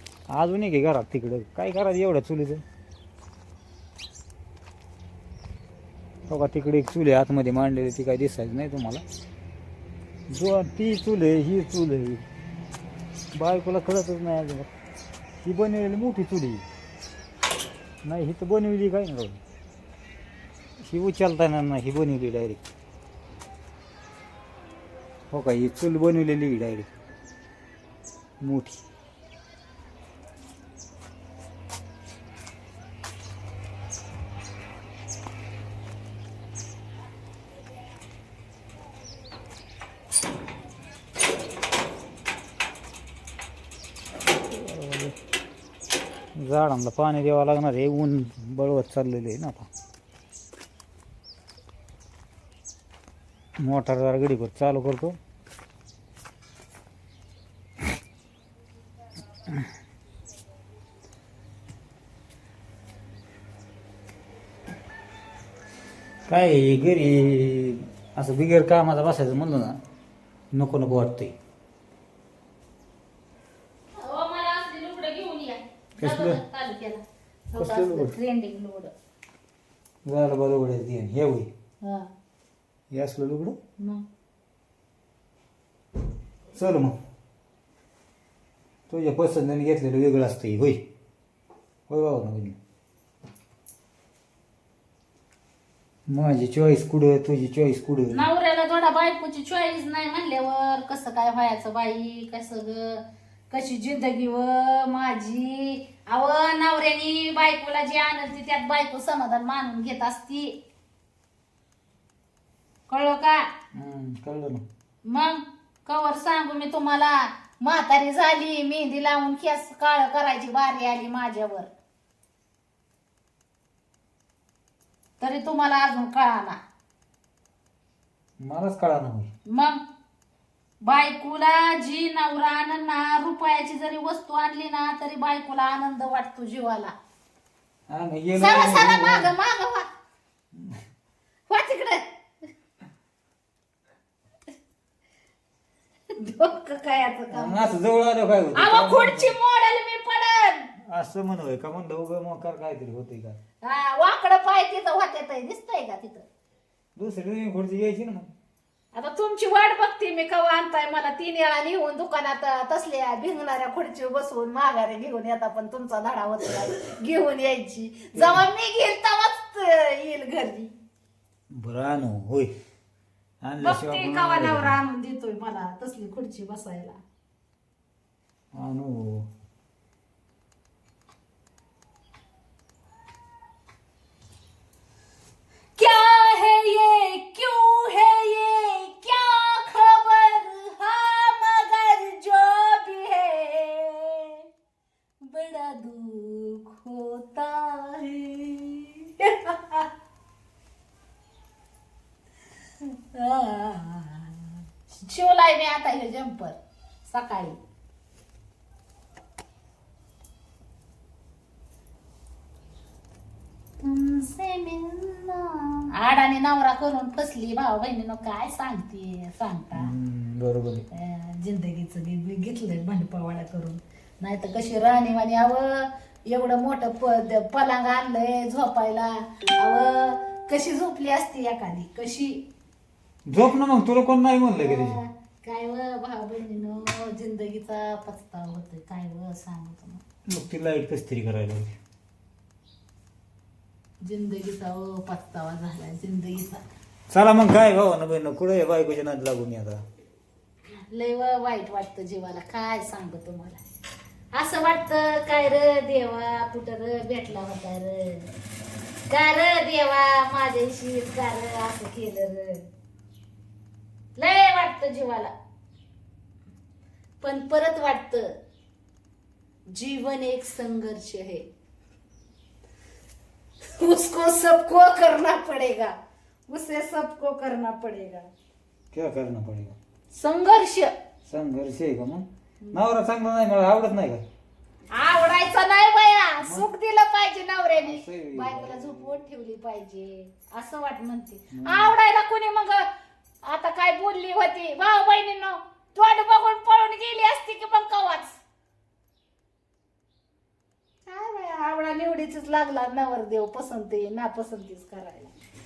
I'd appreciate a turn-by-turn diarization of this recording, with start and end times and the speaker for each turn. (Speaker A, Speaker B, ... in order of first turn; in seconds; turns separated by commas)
Speaker A: 0.3-2.6, Speaker A: 6.3-9.0, Speaker A: 10.3-12.2, Speaker A: 13.3-14.7, Speaker A: 15.4-16.6, Speaker A: 18.0-19.4, Speaker A: 20.8-22.6, Speaker A: 25.3-26.9, Speaker A: 28.4-28.8, Speaker A: 44.5-45.2, Speaker A: 46.4-49.7, Speaker A: 53.6-55.2, Speaker A: 66.3-69.8, Speaker A: 70.5-71.3, Speaker B: 73.9-78.9, Speaker A: 76.0-76.4, Speaker A: 77.6-78.1, Speaker A: 80.1-81.5, Speaker B: 81.8-82.1, Speaker A: 82.9-83.6, Speaker B: 83.8-84.0, Speaker A: 86.5-87.0, Speaker A: 88.9-90.8, Speaker A: 91.9-92.6, Speaker A: 96.1-98.2, Speaker B: 98.1-110.6, Speaker B: 112.9-113.5, Speaker A: 113.7-114.6, Speaker B: 115.1-121.7, Speaker B: 125.2-126.6, Speaker A: 128.4-129.3, Speaker B: 129.5-129.8, Speaker B: 130.8-136.9, Speaker A: 137.9-139.3, Speaker B: 138.4-139.9, Speaker B: 141.5-142.0, Speaker B: 146.2-147.8, Speaker A: 147.3-149.3, Speaker B: 148.6-150.7, Speaker A: 150.9-153.4, Speaker B: 153.6-156.2, Speaker A: 157.0-158.3, Speaker B: 158.9-170.7, Speaker A: 168.2-168.4, Speaker A: 171.5-172.5, Speaker A: 173.4-174.8, Speaker B: 173.6-177.0, Speaker A: 178.5-179.3, Speaker B: 185.8-194.4, Speaker B: 195.2-199.9, Speaker B: 202.8-206.6, Speaker B: 207.1-207.6, Speaker B: 213.8-219.9, Speaker A: 219.8-220.9, Speaker B: 220.9-232.4, Speaker A: 233.3-235.0, Speaker B: 234.6-240.0, Speaker A: 240.3-241.8, Speaker B: 244.0-246.6, Speaker A: 247.1-249.8, Speaker B: 250.9-253.6, Speaker B: 254.3-258.3, Speaker B: 259.1-262.7, Speaker B: 264.2-265.3, Speaker B: 267.2-268.4, Speaker B: 269.7-271.5, Speaker B: 273.8-275.9, Speaker B: 276.5-278.3, Speaker A: 278.9-279.8, Speaker B: 280.1-280.9, Speaker A: 281.2-284.2, Speaker B: 284.9-292.9, Speaker A: 286.4-286.7, Speaker A: 287.8-289.1, Speaker A: 291.5-291.9, Speaker B: 293.5-298.4, Speaker B: 301.1-305.3